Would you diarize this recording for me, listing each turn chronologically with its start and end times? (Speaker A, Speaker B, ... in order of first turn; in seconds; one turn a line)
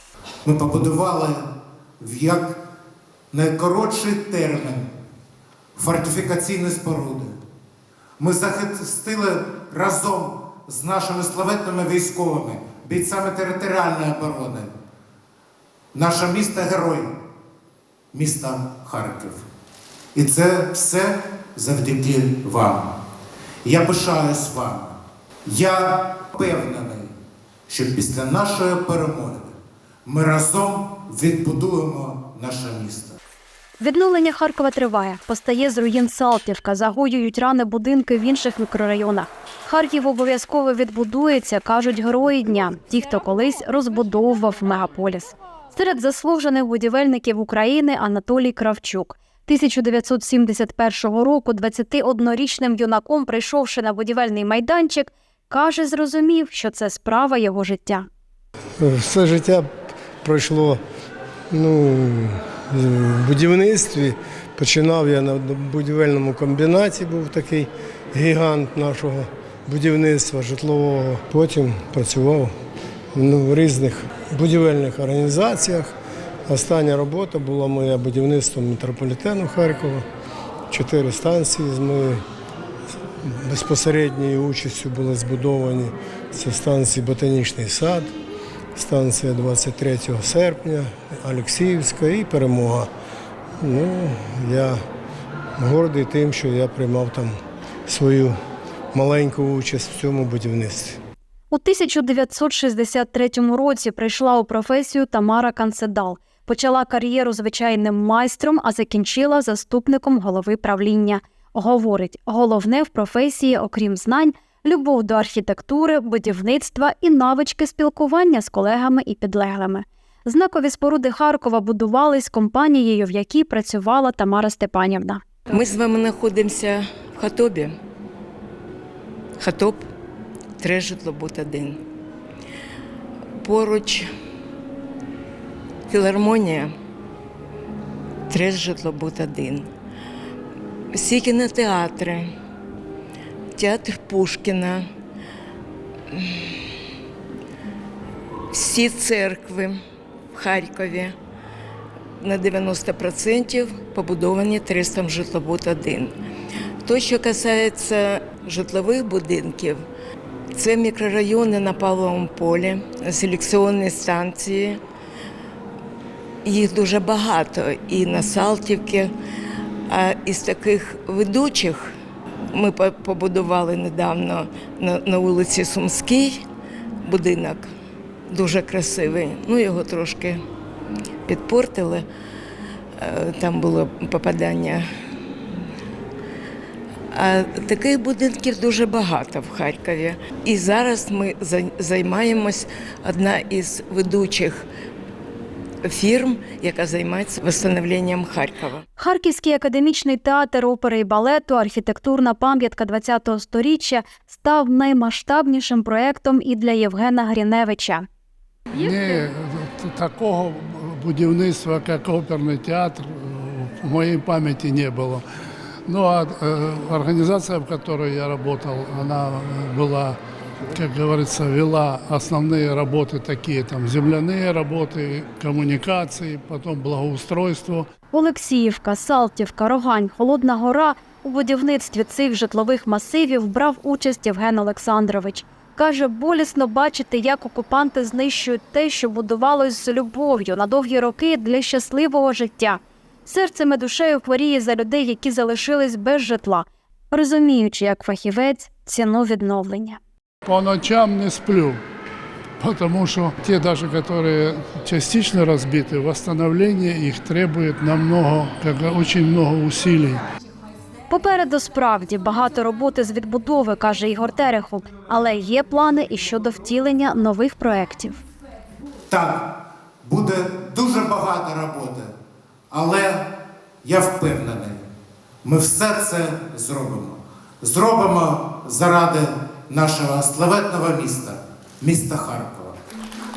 Speaker A: 0.4-1.4
Speaker A: 2.0-2.6
Speaker A: 3.3-4.9
Speaker A: 5.8-7.3
Speaker A: 8.2-14.7
Speaker A: 15.9-17.1
Speaker A: 18.1-19.4
Speaker A: 20.1-22.9
Speaker A: 23.6-27.1
Speaker A: 27.7-29.5
Speaker A: 30.1-33.2
Speaker B: 33.8-58.1
Speaker C: 58.8-59.7
Speaker C: 60.2-60.8
Speaker C: 61.5-72.5
Speaker C: 73.1-75.9
Speaker C: 76.5-80.0
Speaker C: 80.7-82.2
Speaker C: 83.2-88.1
Speaker C: 88.8-92.9
Speaker C: 93.6-94.8
Speaker C: 95.6-97.3
Speaker C: 97.9-98.3
Speaker C: 98.9-101.0
Speaker B: 101.5-125.2
Speaker D: 125.5-127.7
Speaker D: 129.4-129.9
Speaker D: 130.6-131.8
Speaker D: 133.4-134.1
Speaker D: 135.9-136.7
Speaker D: 138.3-139.7
Speaker D: 140.9-142.3
Speaker D: 143.6-144.9
Speaker D: 146.1-146.7
Speaker D: 148.5-149.8
Speaker D: 150.3-151.1
Speaker D: 152.2-156.1
Speaker D: 156.8-159.8
Speaker D: 160.5-164.8
Speaker D: 166.4-169.1
Speaker D: 169.9-171.9
Speaker D: 172.5-176.4
Speaker D: 177.0-177.7
Speaker D: 178.3-180.4
Speaker D: 181.2-182.1
Speaker D: 183.0-184.8
Speaker D: 187.1-194.7
Speaker D: 195.8-198.8
Speaker B: 199.0-208.1
Speaker E: 208.7-215.2
Speaker E: 215.9-220.2
Speaker E: 220.7-227.9
Speaker B: 228.1-250.0
Speaker E: 250.4-251.8
Speaker E: 252.6-260.2
Speaker B: 261.1-268.2
Speaker A: 269.1-269.4
Speaker A: 270.0-272.1
Speaker A: 272.7-273.2
Speaker A: 273.8-274.8
Speaker A: 275.4-282.8